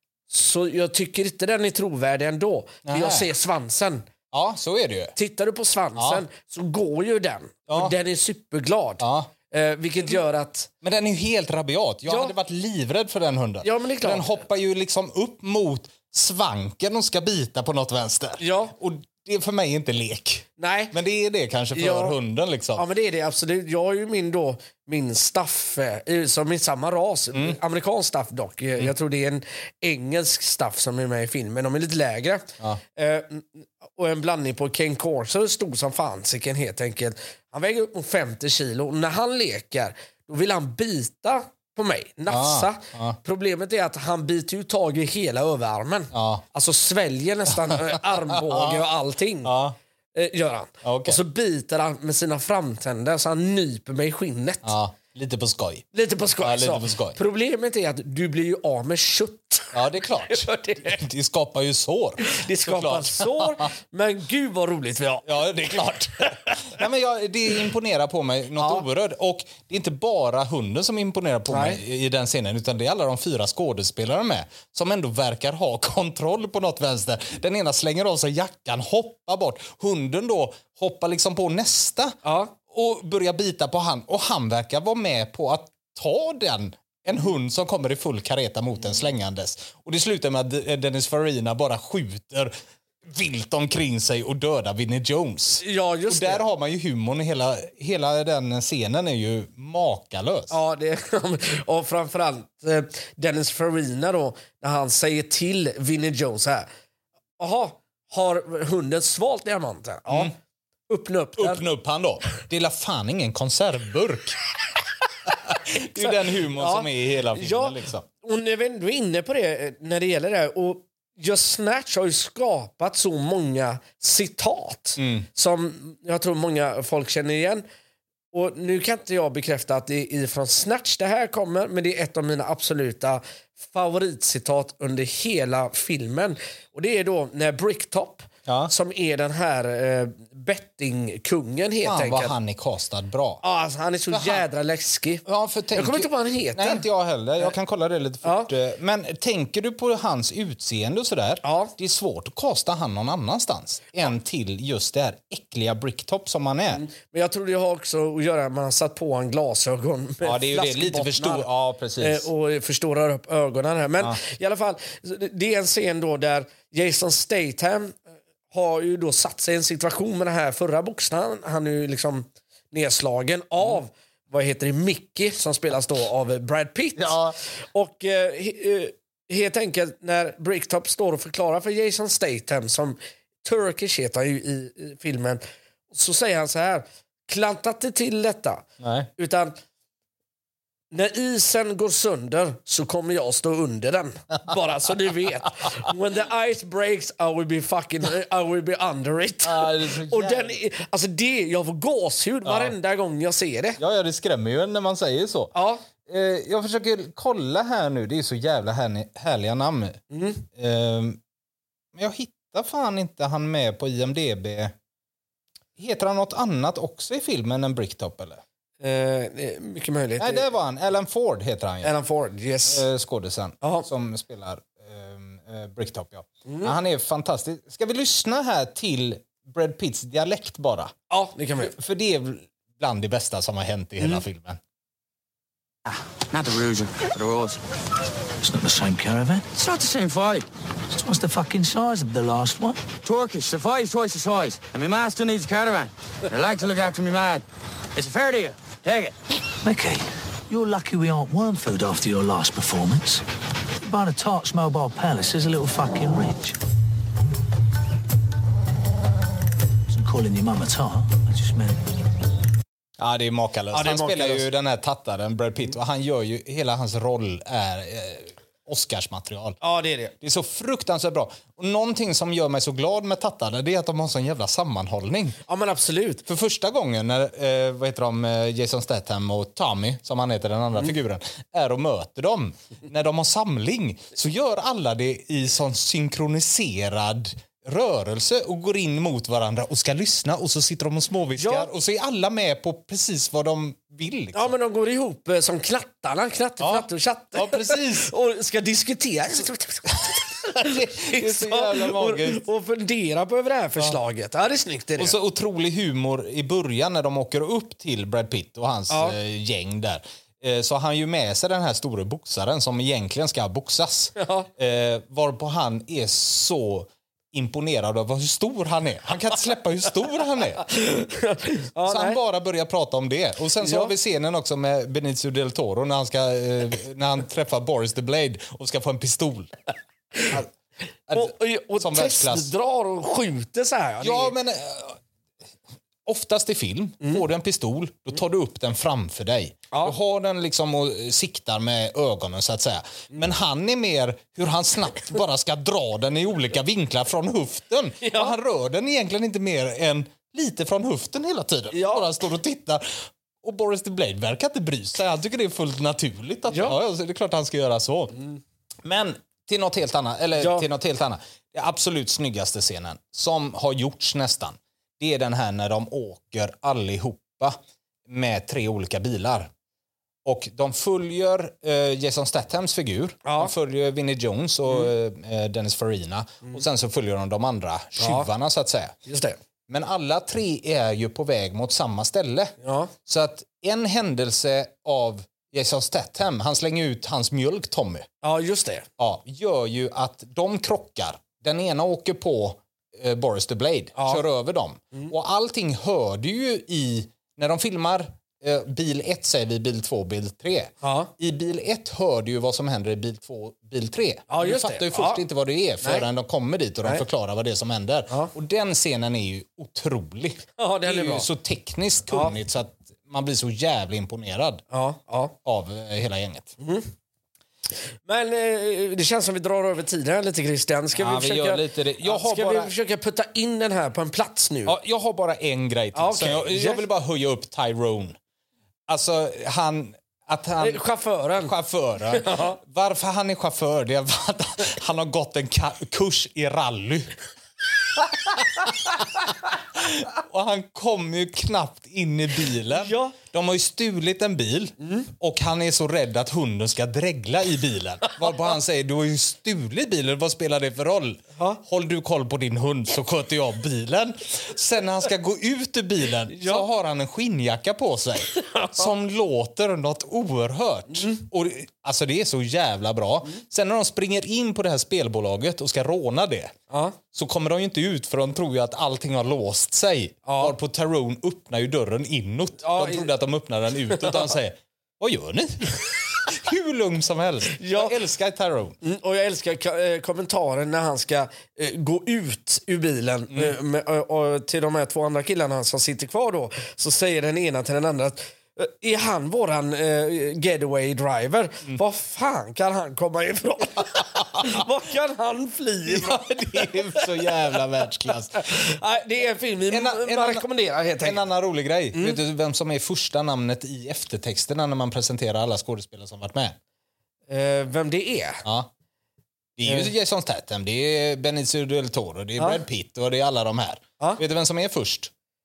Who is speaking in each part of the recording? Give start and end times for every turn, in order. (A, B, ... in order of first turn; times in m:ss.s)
0:00.3-0:04.1 A
0:02.8-0:03.3 B
0:04.3-0:05.2 B
0:05.2-0:10.7 A
0:06.0-0:06.2 B
0:07.7-0:08.0 B
0:09.0-0:09.3 B
0:10.8-0:22.9 B
0:12.1-0:12.4 A
0:13.6-0:14.3 A
0:18.4-0:18.8 A
0:20.6-0:21.0 A
0:21.7-0:22.2 A
0:22.8-0:49.5 A
0:42.3-0:43.2 B
0:46.1-0:46.4 B
0:47.6-0:48.9 B
0:49.4-0:49.8 B
0:50.1-0:54.7 A
0:50.8-0:51.2 B
0:54.6-0:55.9 B
0:55.9-1:01.0 A
0:56.4-0:57.2 B
0:59.7-1:03.7 B
1:02.2-1:05.8 A
1:05.2-1:32.5 B
1:08.6-1:08.9 A
1:11.5-1:11.8 A
1:22.2-1:22.5 A
1:33.0-1:40.6 B
1:35.6-1:36.4 A
1:40.5-1:46.7 A
1:47.4-1:50.3 A
1:50.9-1:51.6 A
1:51.4-1:54.4 B
1:55.3-1:58.1 B
1:55.8-2:07.6 A
2:05.0-2:05.3 B
2:08.3-2:22.3 A
2:18.5-2:18.7 B
2:21.8-2:23.4 B
2:23.4-2:26.9 A
2:24.1-2:24.4 B
2:25.3-2:36.9 B
2:28.2-2:28.5 A
2:31.4-2:31.7 A
2:36.7-2:41.5 A
2:40.2-2:42.3 B
2:42.0-3:08.7 A
2:57.0-2:57.4 B
3:08.8-3:09.1 B
3:09.2-3:09.6 A
3:10.9-3:23.8 A
3:19.4-3:20.6 B
3:22.4-3:22.7 B
3:23.8-3:25.5 B
3:25.5-3:25.8 A
3:26.1-3:30.0 B
3:30.1-3:30.4 A
3:30.5-3:31.2 B
3:32.0-3:34.7 B
3:35.8-3:38.4 B
3:38.8-3:40.5 A
3:40.2-3:41.9 B
3:41.8-3:42.8 A
3:42.7-3:50.9 B
3:43.6-3:43.9 A
3:46.5-3:46.7 A
3:51.1-3:51.7 A
3:51.6-3:54.6 B
3:55.9-3:57.6 C
3:58.4-3:59.5 D
3:59.6-4:00.4 C
4:00.9-4:02.8 D
4:03.0-4:07.4 C
4:08.0-4:09.2 C
4:09.6-4:13.2 D
4:13.8-4:16.6 D
4:19.9-4:21.8 D
4:23.0-4:29.6 B
4:23.7-4:24.5 A
4:29.6-4:30.1 A
4:30.2-4:35.4 B
4:35.5-4:36.2 A
4:36.3-4:54.5 B
4:51.4-4:51.7 A
4:54.3-5:05.2 A
4:56.6-4:58.1 B
5:00.4-5:02.4 B
5:05.0-5:20.7 B
5:08.9-5:09.2 A
5:14.2-5:14.5 A
5:20.6-5:22.2 A
5:21.8-5:29.5 B
5:23.6-5:23.9 A
5:31.1-5:32.5 B
5:31.1-5:34.4 A
5:34.0-5:35.0 B
5:36.0-5:58.2 B
5:48.0-5:48.4 A
5:51.7-5:52.1 A
5:56.5-5:56.8 A
5:58.8-6:09.5 B
6:00.4-6:00.7 A
6:10.2-6:19.0 B
6:13.2-6:13.5 A
6:18.0-6:18.3 A
6:19.1-6:19.4 A
6:19.7-6:28.1 B
6:22.6-6:22.9 A
6:28.2-6:28.9 A
6:29.0-6:54.6 B
6:34.0-6:34.2 A
6:40.8-6:41.1 A
6:44.3-6:45.2 A
6:50.6-6:51.3 A
6:54.7-6:55.3 A
6:55.4-6:56.6 B
6:56.6-6:56.9 A
6:58.0-7:04.8 A
7:01.0-7:02.7 B
7:04.6-7:08.2 B
7:06.0-7:06.8 A
7:08.9-7:10.8 B
7:10.6-7:11.5 A
7:11.4-7:17.2 B
7:12.1-7:12.6 A
7:18.2-7:46.6 B
7:22.7-7:23.2 A
7:24.8-7:25.1 A
7:31.4-7:31.6 A
7:36.3-7:36.7 A
7:38.4-7:38.9 A
7:46.7-7:47.0 A
7:47.1-7:58.8 B
7:50.2-7:50.6 A
7:52.6-7:53.1 A
7:53.9-7:54.3 A
7:57.6-7:58.0 A
7:58.8-8:21.2 A
8:14.4-8:14.6 B
8:15.9-8:18.7 B
8:19.7-8:20.5 B
8:21.0-8:26.6 B
8:21.9-8:22.2 A
8:27.3-8:28.4 A
8:28.4-8:28.7 B
8:29.6-8:35.1 B
8:29.6-8:29.9 A